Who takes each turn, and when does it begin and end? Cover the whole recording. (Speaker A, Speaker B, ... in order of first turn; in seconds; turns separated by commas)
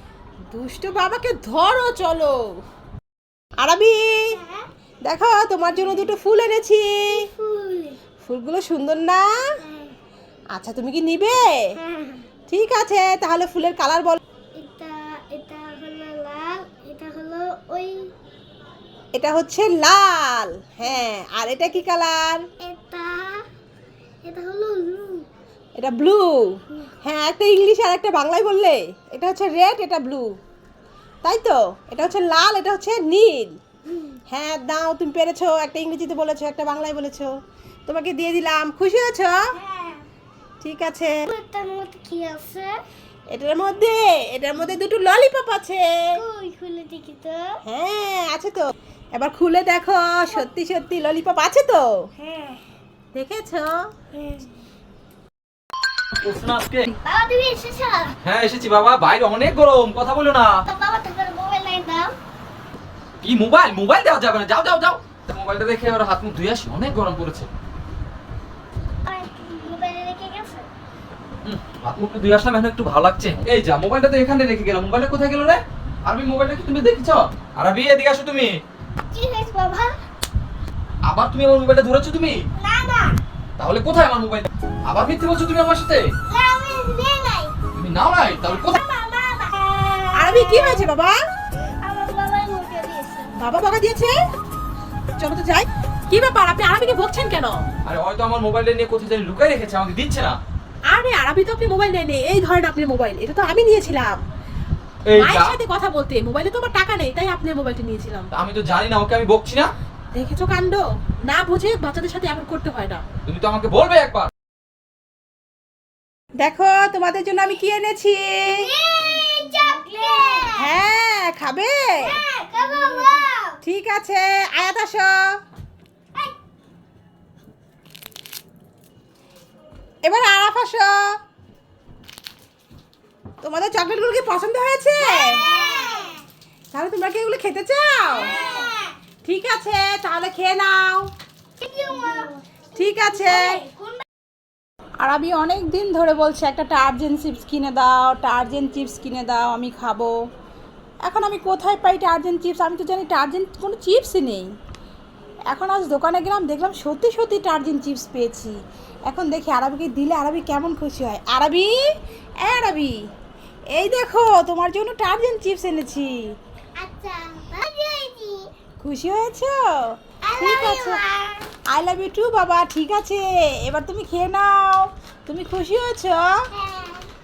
Speaker A: 0.5-2.4, Speaker A: 3.6-4.2, Speaker B: 4.3-4.7, Speaker A: 5.0-7.2, Speaker B: 7.1-8.0, Speaker A: 8.2-9.3, Speaker B: 9.6-9.9, Speaker A: 10.5-11.6, Speaker B: 11.8-12.3, Speaker A: 12.5-14.2, Speaker B: 14.6-18.1, Speaker A: 19.1-22.4, Speaker B: 22.6-23.4, Speaker B: 24.2-25.2, Speaker A: 25.8-26.5, Speaker A: 27.0-30.3, Speaker A: 31.2-33.5, Speaker A: 34.3-37.3, Speaker A: 37.9-39.4, Speaker B: 39.5-40.0, Speaker A: 40.6-41.2, Speaker B: 41.3-42.7, Speaker A: 43.3-46.2, Speaker B: 46.1-47.5, Speaker A: 47.6-52.0, Speaker B: 52.2-52.6, Speaker A: 53.1-53.9, Speaker B: 54.1-54.5, Speaker C: 56.1-56.9, Speaker B: 57.0-58.1, Speaker C: 58.2-60.6, Speaker B: 60.7-62.1, Speaker C: 63.2-67.5, Speaker B: 69.0-70.7, Speaker C: 71.4-78.6, Speaker B: 79.1-80.0, Speaker C: 81.0-82.4, Speaker B: 82.6-83.2, Speaker C: 83.6-86.1, Speaker B: 86.3-87.5, Speaker C: 87.7-88.8, Speaker B: 88.4-90.9, Speaker A: 90.2-91.2, Speaker B: 91.8-93.3, Speaker A: 93.3-94.1, Speaker A: 95.2-97.6, Speaker C: 97.8-100.4, Speaker A: 100.9-104.2, Speaker C: 105.1-105.6, Speaker A: 105.1-108.3, Speaker C: 108.3-109.7, Speaker A: 110.1-113.0, Speaker C: 113.2-114.3, Speaker A: 116.4-118.6, Speaker B: 118.5-120.7, Speaker A: 120.5-122.2, Speaker B: 122.0-123.6, Speaker A: 123.6-125.2, Speaker A: 130.0-130.9, Speaker A: 133.4-135.4, Speaker B: 135.0-136.2, Speaker A: 136.7-138.3, Speaker B: 138.1-138.9, Speaker A: 139.2-141.1, Speaker B: 141.6-142.3, Speaker A: 142.8-143.6, Speaker B: 142.9-144.0, Speaker A: 145.0-150.1, Speaker A: 151.0-154.5, Speaker A: 155.5-158.5, Speaker A: 159.1-161.7, Speaker A: 162.4-162.9, Speaker A: 163.7-166.2, Speaker B: 166.8-168.5, Speaker A: 168.8-169.6, Speaker B: 170.2-171.5, Speaker A: 170.4-171.0, Speaker A: 171.7-176.3, Speaker B: 176.5-177.1